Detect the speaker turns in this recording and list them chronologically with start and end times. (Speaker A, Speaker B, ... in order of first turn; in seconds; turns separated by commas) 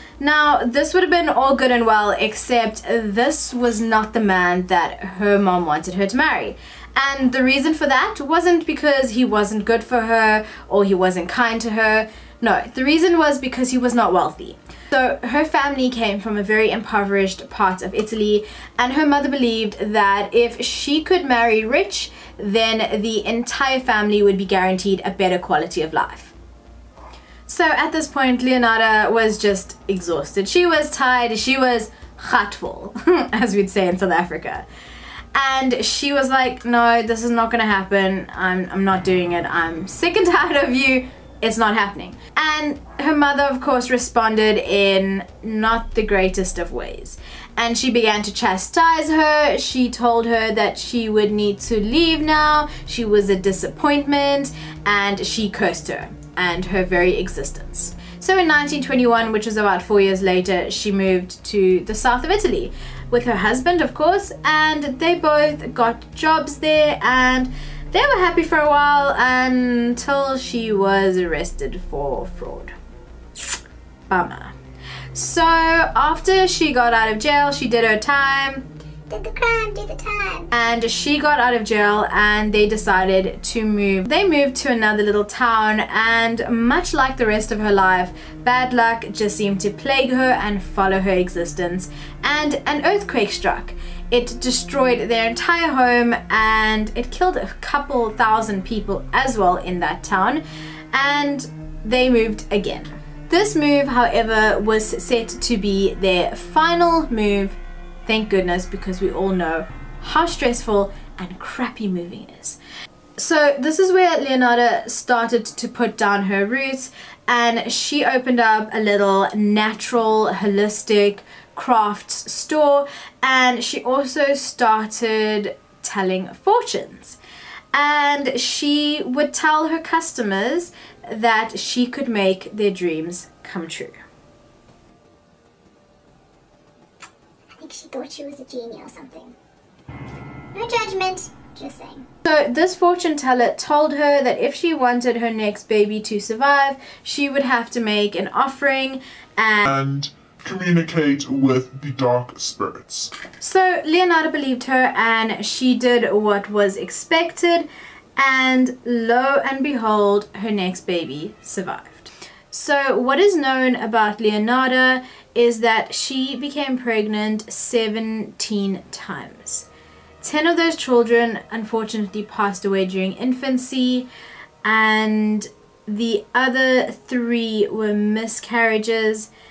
Speaker A: 0.2-26.3, Speaker A: 27.5-34.6, Speaker A: 35.3-72.7, Speaker A: 74.1-74.5, Speaker A: 75.1-78.6, Speaker B: 79.1-80.5, Speaker A: 80.5-112.6, Speaker A: 113.2-127.2, Speaker A: 127.7-133.9, Speaker B: 137.6-139.3, Speaker B: 140.5-142.1, Speaker A: 142.2-149.7, Speaker C: 149.7-153.1, Speaker A: 153.4-169.7, Speaker A: 170.2-174.1, Speaker A: 174.6-179.3